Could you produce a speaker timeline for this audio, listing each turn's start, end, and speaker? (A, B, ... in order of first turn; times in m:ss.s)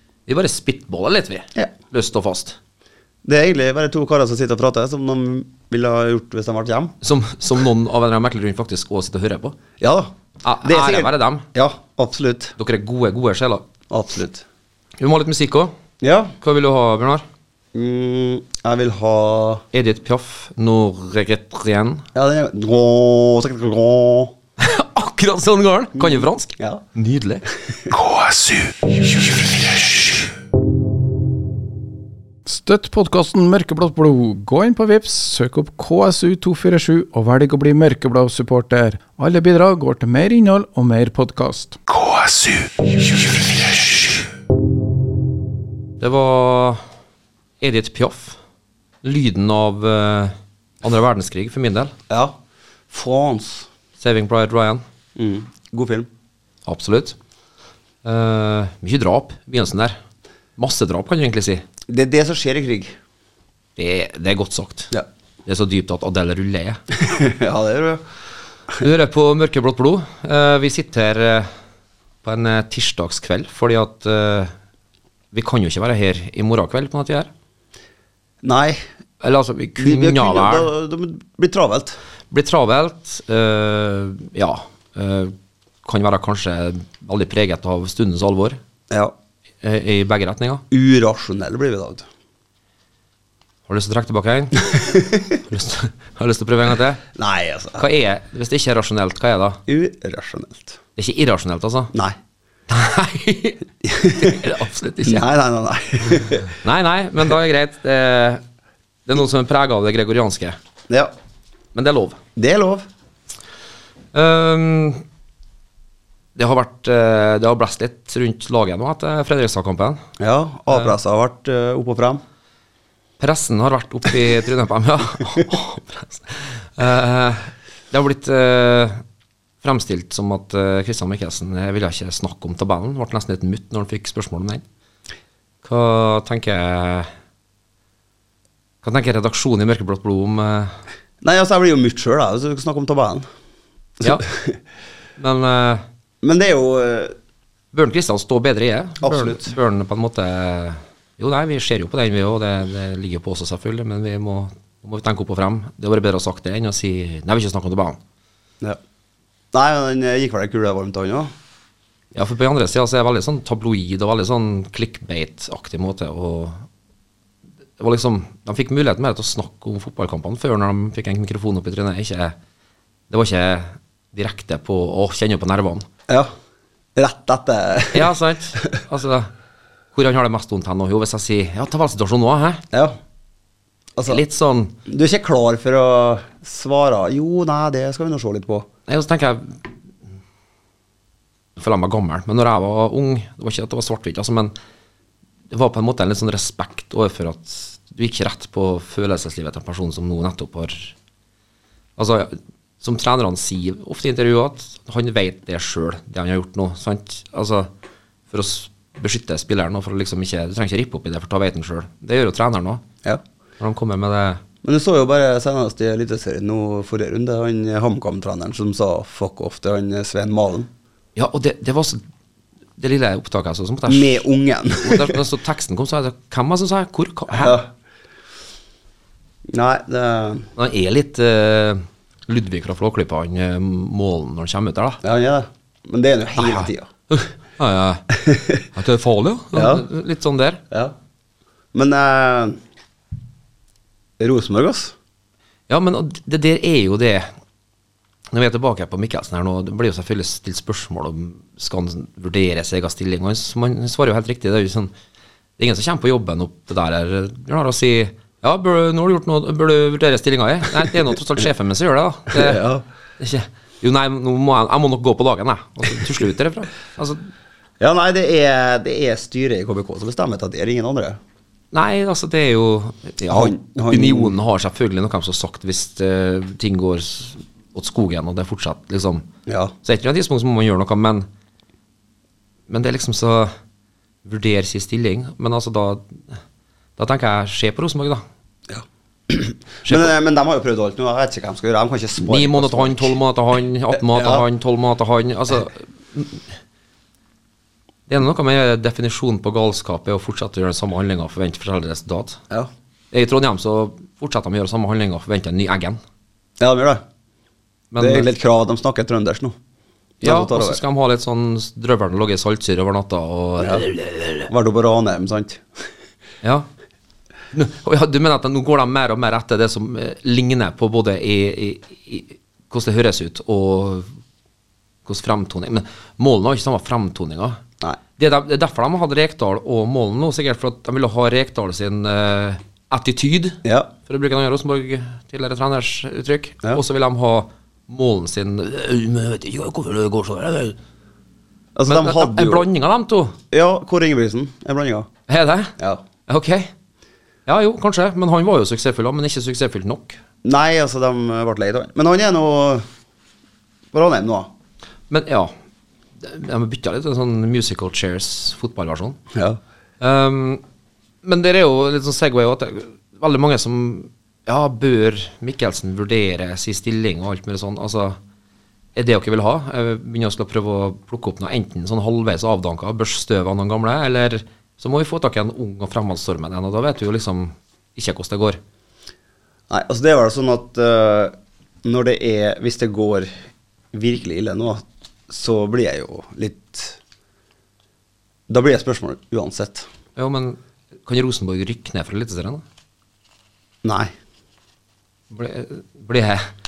0:00.3-0:02.6 A
0:03.2-0:06.9 B
0:07.0-0:09.6 A
0:09.8-0:10.1 B
0:10.4-0:11.4 A
0:10.6-0:12.6 B
0:12.6-0:13.6 A
0:13.9-0:14.4 B
0:15.0-0:15.7 A
0:16.0-0:16.4 B
0:16.4-0:17.2 A
0:17.7-0:19.6 B
0:19.7-0:22.0 A
0:22.1-0:24.3 B
0:24.6-0:27.4 A
0:26.0-0:26.8 B
0:27.9-0:30.3 C
0:32.4-0:41.8 D
0:41.9-0:44.3 C
0:46.0-0:46.8 A
0:47.6-0:48.4 A
0:49.0-0:51.9 A
0:52.1-0:52.4 B
0:52.9-0:53.7 B
0:54.0-0:54.8 A
0:55.2-0:56.1 B
0:56.6-0:57.2 A
0:58.0-1:00.0 A
1:00.6-1:01.6 A
1:01.9-1:03.0 B
1:03.8-1:04.9 A
1:05.4-1:06.8 A
1:06.9-1:08.0 B
1:08.8-1:11.5 A
1:12.2-1:14.5 A
1:15.3-1:17.3 A
1:18.4-1:18.8 B
1:19.2-1:20.7 A
1:19.8-1:22.0 B
1:22.3-1:28.6 A
1:29.6-1:30.6 A
1:30.7-1:32.0 B
1:33.7-1:34.8 A
1:34.7-1:35.4 B
1:35.3-1:37.0 A
1:37.1-1:37.8 B
1:37.8-1:39.6 A
1:39.7-1:40.8 B
1:41.0-1:41.9 A
1:42.7-1:45.2 A
1:43.8-1:44.4 B
1:45.0-1:46.5 B
1:46.6-1:48.4 A
1:49.0-1:50.6 A
1:51.7-1:52.2 A
1:52.4-1:52.9 B
1:54.1-1:55.0 A
1:56.4-2:00.0 A
2:00.2-2:02.2 B
2:00.7-2:00.9 A
2:03.2-2:09.0 A
2:09.6-2:14.6 A
2:15.6-2:17.1 A
2:18.8-2:20.8 A
2:21.2-2:23.3 B
2:24.0-2:24.6 B
2:25.2-2:25.8 A
2:26.2-2:27.1 B
2:27.7-2:38.0 A
2:29.0-2:29.5 B
2:39.5-2:41.3 B
2:42.1-2:46.6 A
2:47.8-2:52.3 A
2:53.1-2:55.8 A
2:56.1-2:56.3 B
2:57.0-2:58.6 B
2:57.9-2:59.3 A
2:59.9-3:02.6 A
3:02.7-3:03.0 B
3:04.0-3:04.2 B
3:04.0-3:04.8 A
3:04.8-3:08.7 B
3:08.9-3:09.6 A
3:11.6-3:14.5 A
3:15.5-3:20.9 A
3:22.0-3:27.7 A
3:28.3-3:32.8 A
3:33.6-3:34.4 A
3:34.6-3:40.7 B
3:41.2-3:42.0 A
3:42.8-3:44.2 A
3:43.9-3:45.2 B
3:44.8-3:47.6 A
3:47.4-3:47.7 B
3:49.5-3:50.5 B
3:50.6-3:55.0 A
3:55.0-3:56.9 B
3:56.4-4:00.6 A
3:58.1-3:58.6 B
3:59.5-3:59.8 B
4:01.7-4:02.6 B
4:04.2-4:04.9 B
4:05.7-4:07.3 A
4:08.3-4:14.9 A
4:15.6-4:22.6 A
4:22.3-4:22.8 B
4:23.2-4:27.3 A
4:27.8-4:31.2 B
4:31.7-4:39.2 A
4:33.3-4:34.4 B
4:39.5-4:39.7 B
4:39.8-4:41.2 A
4:42.7-4:43.5 A
4:44.2-4:46.4 A
4:47.0-4:48.2 A
4:48.7-4:53.2 B
4:49.8-4:50.1 A
4:52.2-4:56.4 A
4:54.1-4:54.4 B
4:58.1-5:02.4 A
5:03.1-5:06.0 A
5:06.6-5:07.0 B
5:07.9-5:08.3 A
5:08.0-5:09.6 B
5:10.2-5:10.8 B
5:10.2-5:14.5 A
5:13.6-5:13.8 B
5:14.5-5:15.8 B
5:16.4-5:16.7 A
5:17.5-5:24.1 A
5:25.0-5:27.6 A
5:28.2-5:40.8 A
5:33.6-5:33.9 B
5:41.8-5:42.7 B
5:41.9-5:43.4 A
5:43.5-5:45.1 B
5:45.3-5:45.7 A
5:46.3-5:46.7 A
5:47.4-5:50.2 A
5:50.4-5:52.8 B
5:53.9-5:54.5 B
5:55.1-5:55.5 A
5:56.2-5:59.2 A
5:59.3-5:59.6 B
6:00.0-6:00.6 A
6:01.2-6:08.2 A
6:09.0-6:18.6 A
6:19.7-6:23.3 B
6:23.9-6:27.0 B
6:28.5-6:29.9 B
6:30.2-6:32.6 A
6:33.8-6:34.1 B
6:35.3-6:36.5 A